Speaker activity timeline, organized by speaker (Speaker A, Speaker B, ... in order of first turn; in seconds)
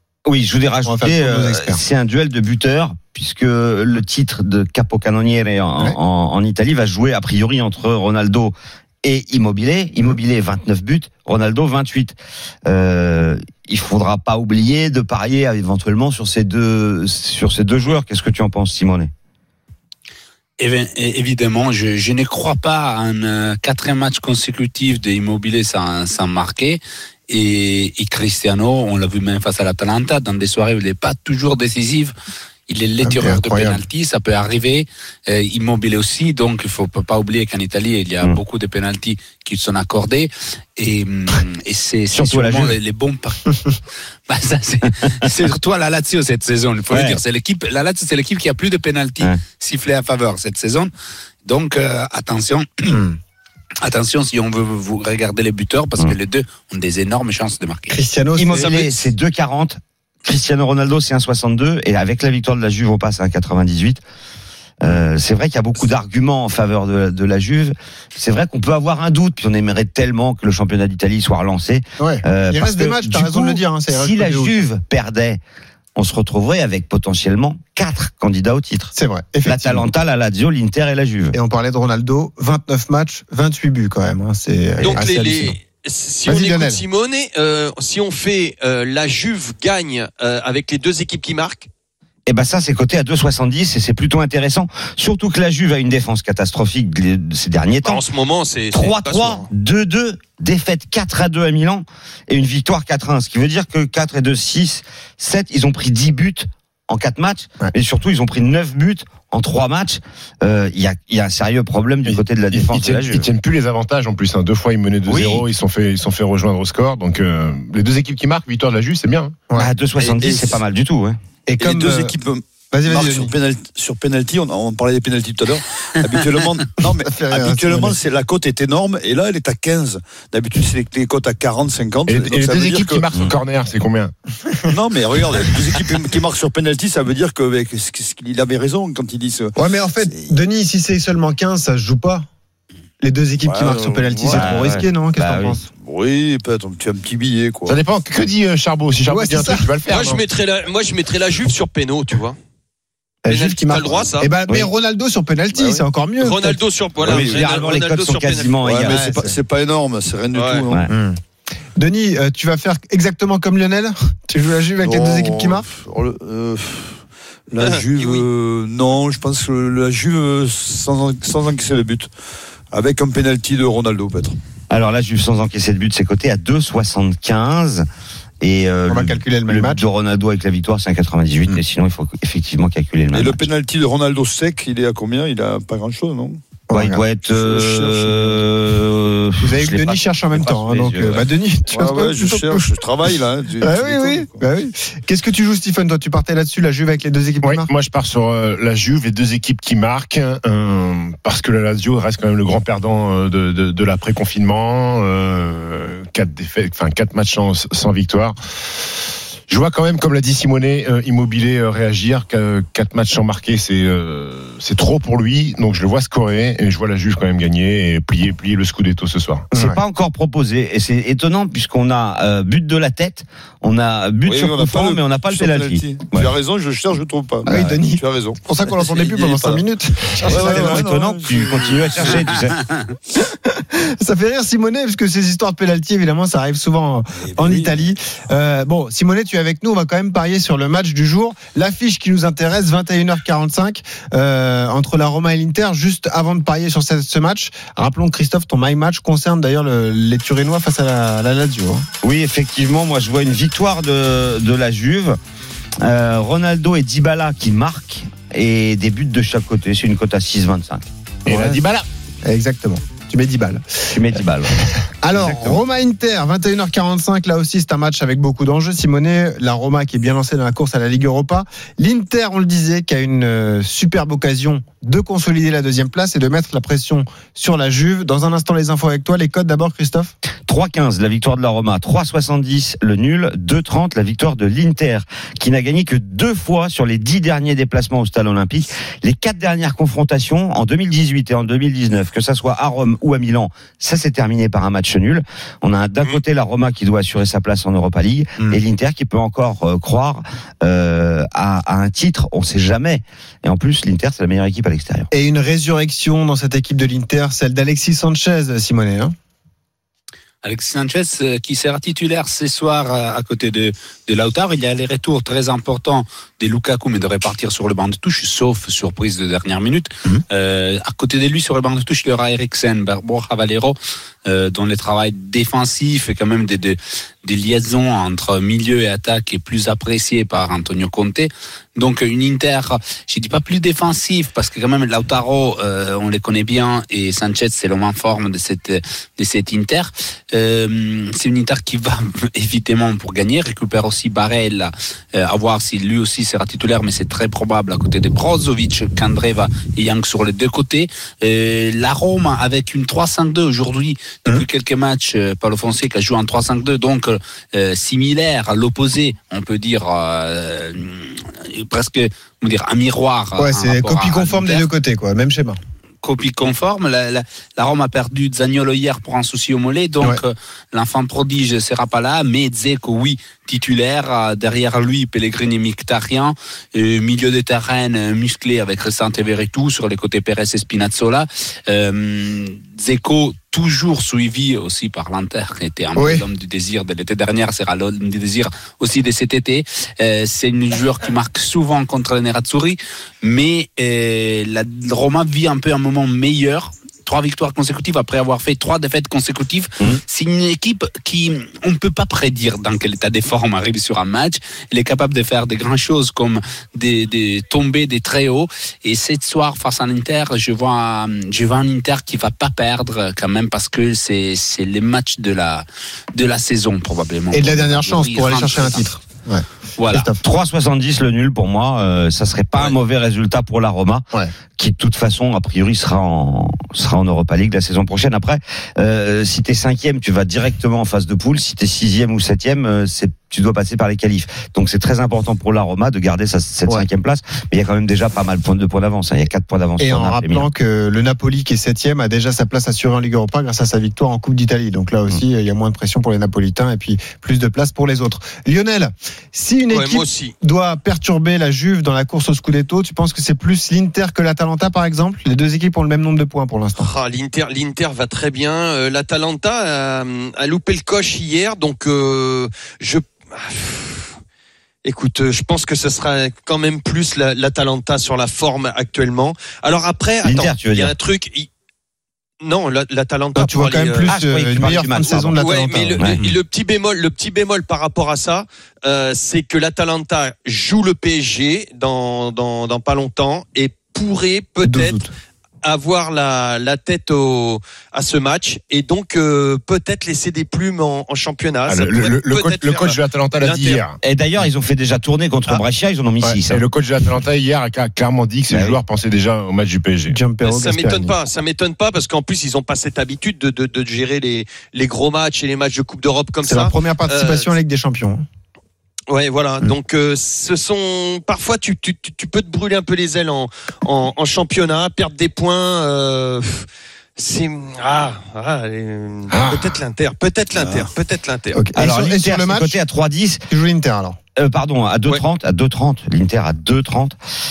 Speaker A: 0.2-19.1, 42.1-42.8, 46.9-47.2, 58.3-64.0, 64.8-75.4, 76.0-78.9, 79.4-81.3, 92.3-98.0, 98.7-113.2, 115.1-115.4, 119.5-121.2, 144.3-145.6, 157.0-159.0, 174.7-177.9, 178.4-183.5, 186.7-191.3, 219.5-226.3, 227.5-227.8, 230.3-232.6, 252.0-255.2, 255.8-260.9, 263.9-265.6, 280.5-305.1, 420.2-440.5, 470.2-470.9, 474.0-475.4, 476.0-476.2, 494.0-496.6, 498.5-498.8, 521.7-523.4, 524.4-527.1
Speaker B: 0.8-1.8, 33.0-33.8, 52.9-53.2, 57.9-58.8, 72.0-74.5, 78.9-79.9, 81.3-85.5, 86.3-86.8, 121.5-122.1, 122.7-123.3, 126.8-128.0, 139.6-142.2, 143.0-145.7, 149.1-149.7, 153.2-156.6, 158.9-159.4, 160.9-161.2, 161.8-165.7, 178.9-179.8, 186.7-187.0, 189.4-192.8, 193.6-197.7, 219.5-219.8, 227.4-230.8, 233.4-251.8, 261.3-261.6, 262.2-263.9, 265.0-280.1, 305.1-309.1, 363.4-365.6, 385.9-386.2, 417.3-420.2, 439.8-456.9, 473.4-476.1, 484.6-485.1, 500.1-501.1, 506.5-508.2, 521.5-522.8, 523.5-524.2
Speaker C: 20.6-32.1, 32.7-43.4, 44.3-50.9, 51.4-53.0, 53.8-58.0, 310.4-364.6, 366.0-418.9, 419.8-420.1
Speaker D: 84.8-91.7, 97.8-99.5, 149.9-152.4, 153.3-154.3, 156.2-158.6, 160.3-160.6, 167.6-168.2, 449.7-450.3, 456.8-464.1, 464.8-471.5, 472.4-474.1, 475.4-485.0, 485.6-493.8, 500.4-507.5, 509.1-516.6, 517.2-521.6
Speaker E: 112.0-119.4, 132.1-134.1, 147.7-150.2, 197.4-208.3, 209.5-219.5, 261.2-261.9, 491.7-494.0, 496.2-500.2, 519.3-519.8
Speaker F: 120.1-120.5, 121.6-133.1, 134.7-139.5, 143.4-144.8, 145.8-147.8, 155.5-155.8, 157.0-157.5, 158.6-160.9, 164.8-172.1, 172.7-174.4, 183.1-186.4, 187.3-188.4, 191.7-194.4, 224.2-229.7, 230.2-232.3, 237.2-237.9, 520.6-520.9